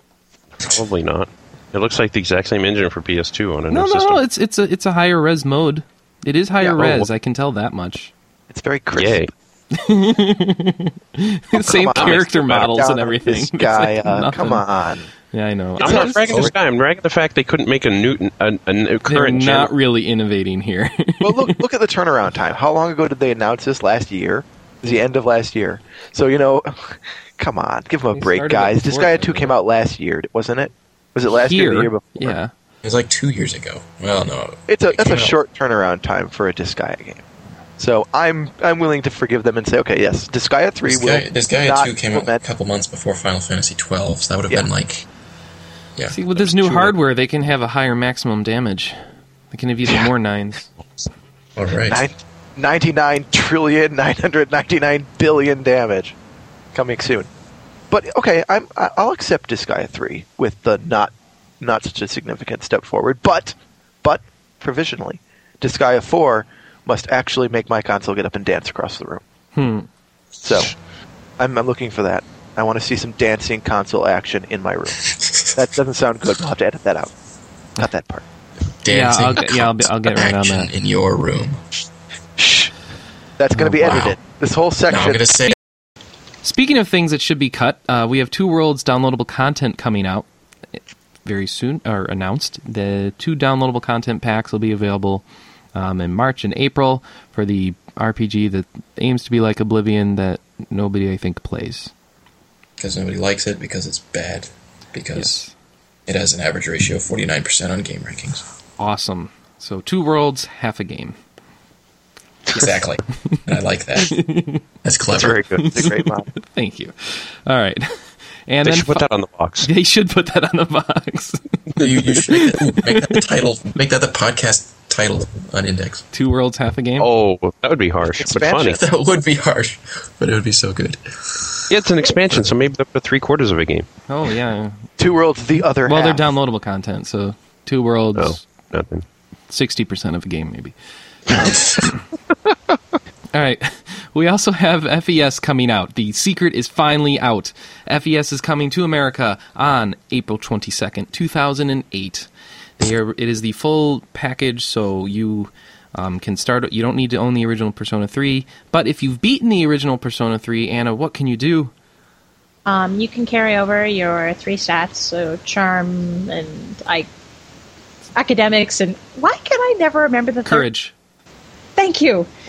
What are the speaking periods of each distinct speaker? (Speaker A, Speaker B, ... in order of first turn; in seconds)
Speaker A: 0.6-4.2, 6.6-7.1, 8.9-9.3, 11.9-12.2, 15.8-19.7, 115.1-115.7, 118.6-119.7, 127.0-128.8, 131.7-133.9, 138.2-139.1
Speaker B: 3.7-8.1, 9.7-14.7, 15.3-16.2, 19.1-21.6, 28.1-29.6, 31.3-32.5, 46.1-49.0, 49.5-50.7, 69.5-69.9, 78.9-80.7, 86.4-90.3, 91.2-101.9, 105.2-105.5, 108.8-111.2, 114.0-114.6, 115.6-119.1, 119.6-123.2, 126.1-127.1, 134.1-134.9, 135.8-138.4, 139.5-140.8, 141.3-142.0, 143.3-161.7, 170.4-170.9
Speaker C: 8.5-9.3, 11.5-15.1, 15.8-16.5, 21.2-32.4, 34.7-37.2, 37.8-42.4, 51.9-56.1, 56.7-57.3, 57.9-69.2, 70.4-70.7, 71.4-77.1, 77.8-78.2, 82.4-82.7, 83.4-85.5, 115.3-116.3, 128.1-128.8, 135.0-136.3
Speaker D: 32.8-35.4, 40.8-45.1, 46.0-46.9, 51.6-52.0, 75.2-75.4, 78.8-81.6, 83.8-84.2, 84.9-85.6, 102.8-105.4, 106.1-108.4, 112.5-114.2, 114.8-115.4, 121.8-126.0, 128.7-131.7
Speaker E: 162.7-167.1, 168.2-170.7, 171.8-172.3